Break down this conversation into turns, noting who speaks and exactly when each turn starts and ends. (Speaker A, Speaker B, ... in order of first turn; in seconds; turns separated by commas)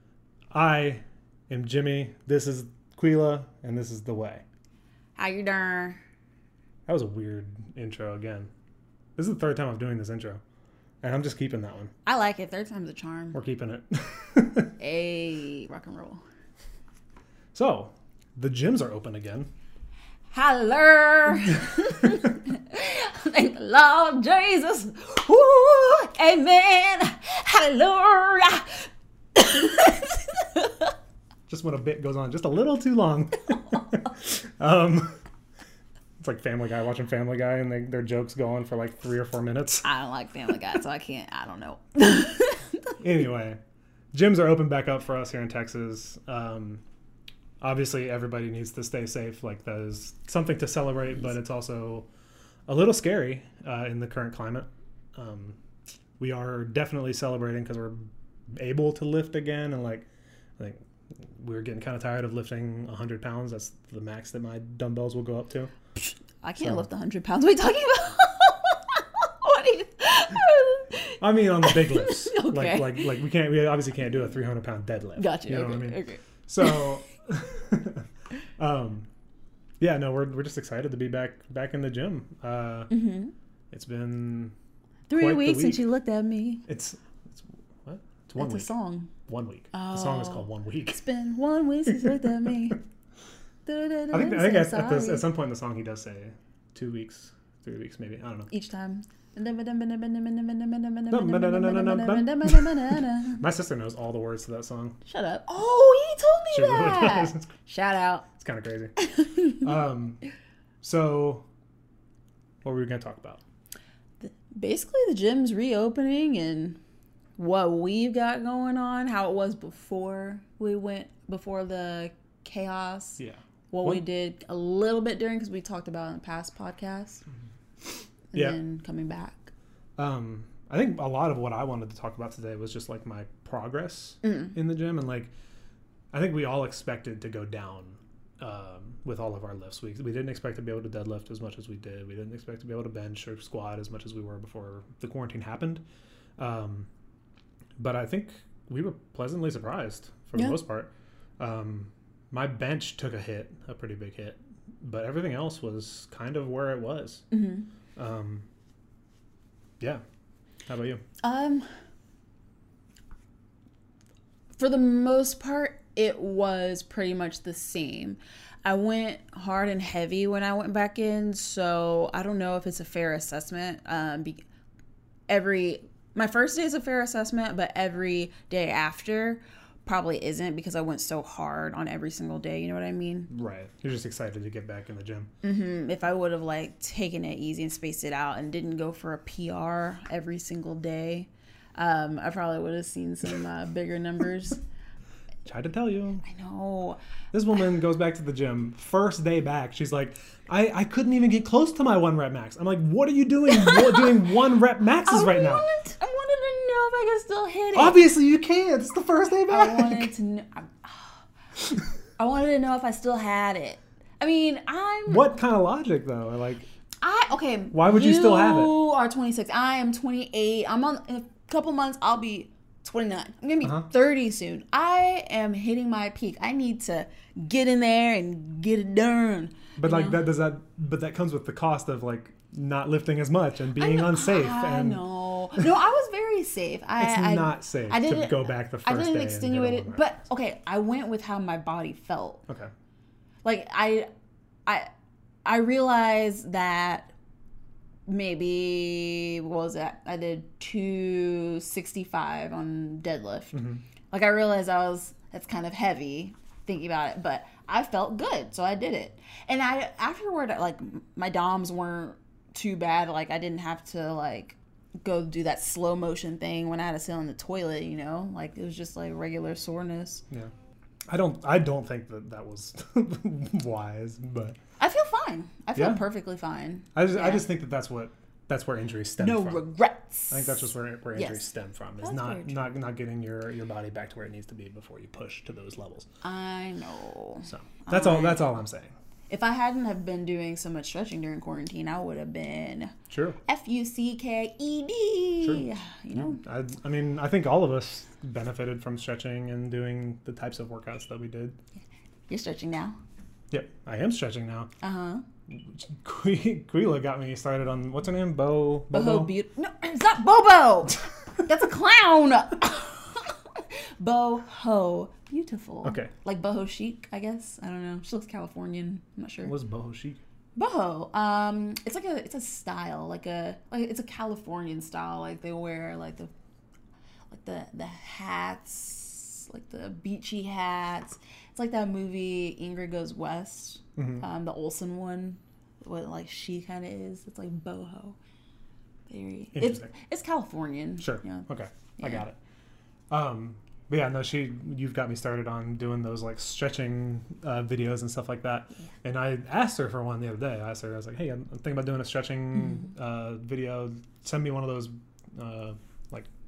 Speaker A: 0.5-4.4, Speaker B: 5.2-6.0, Speaker A: 6.9-8.5, Speaker A: 9.2-10.4, Speaker A: 11.0-11.9, Speaker B: 12.1-13.4, Speaker A: 13.3-14.7, Speaker B: 14.8-16.2, Speaker A: 17.5-19.5, Speaker B: 20.3-30.9, Speaker A: 31.5-35.2, Speaker A: 36.2-39.9, Speaker B: 39.8-43.0, Speaker A: 43.0-43.6, Speaker A: 44.1-46.8, Speaker A: 47.6-52.1, Speaker A: 52.7-55.6, Speaker A: 56.2-65.7, Speaker B: 66.4-73.1, Speaker A: 71.2-78.1, Speaker B: 75.2-76.9, Speaker A: 78.6-79.1, Speaker A: 79.8-82.9, Speaker B: 82.9-83.3, Speaker A: 83.7-84.5, Speaker B: 85.1-86.6, Speaker A: 85.1-85.8, Speaker A: 86.7-88.7, Speaker B: 88.4-89.1, Speaker A: 89.2-91.0, Speaker B: 89.7-92.8, Speaker A: 91.9-92.2, Speaker B: 93.7-95.2, Speaker A: 94.1-98.5, Speaker B: 98.5-103.4, Speaker A: 101.1-105.0, Speaker B: 105.0-108.3, Speaker A: 106.5-107.5, Speaker A: 108.4-110.2, Speaker B: 109.0-109.7, Speaker A: 110.8-111.5, Speaker A: 112.6-113.4, Speaker B: 114.2-116.8, Speaker B: 117.4-127.2, Speaker A: 123.2-124.0, Speaker B: 128.3-129.5, Speaker A: 128.3-128.6, Speaker A: 130.0-135.3, Speaker B: 134.2-134.5, Speaker A: 136.1-145.8, Speaker A: 146.4-146.9, Speaker A: 147.8-157.2, Speaker B: 157.3-157.7, Speaker A: 158.0-158.5, Speaker A: 160.7-161.0, Speaker B: 161.2-161.7, Speaker B: 164.6-174.4, Speaker B: 175.3-183.3, Speaker A: 183.3-185.3, Speaker B: 185.4-194.6, Speaker A: 195.5-196.2, Speaker B: 196.2-197.0, Speaker A: 197.3-205.7, Speaker B: 203.6-204.1, Speaker B: 205.1-208.0, Speaker A: 207.8-210.1, Speaker B: 209.5-215.4, Speaker A: 215.1-216.7, Speaker B: 217.0-230.2, Speaker A: 217.7-218.8, Speaker A: 229.8-235.1, Speaker B: 233.8-242.4, Speaker A: 237.0-240.1, Speaker B: 243.4-244.1, Speaker B: 245.4-247.1, Speaker B: 248.1-270.2, Speaker A: 271.1-274.6, Speaker B: 274.8-277.4, Speaker A: 275.8-276.0, Speaker A: 277.0-279.6, Speaker B: 279.2-281.5, Speaker A: 280.3-286.1, Speaker B: 282.0-282.7, Speaker B: 286.2-288.5, Speaker A: 287.5-288.9, Speaker B: 289.3-292.9, Speaker A: 293.1-293.4, Speaker B: 293.5-296.4, Speaker A: 295.4-301.6, Speaker B: 302.3-303.0, Speaker A: 303.5-304.7, Speaker B: 304.8-305.2, Speaker A: 305.5-309.3, Speaker B: 308.9-319.5, Speaker A: 315.8-316.1, Speaker A: 319.4-320.2, Speaker B: 320.6-326.3, Speaker B: 327.3-338.2, Speaker A: 334.0-334.2, Speaker B: 339.1-341.5, Speaker A: 339.6-339.9, Speaker A: 341.0-342.4, Speaker A: 343.1-356.3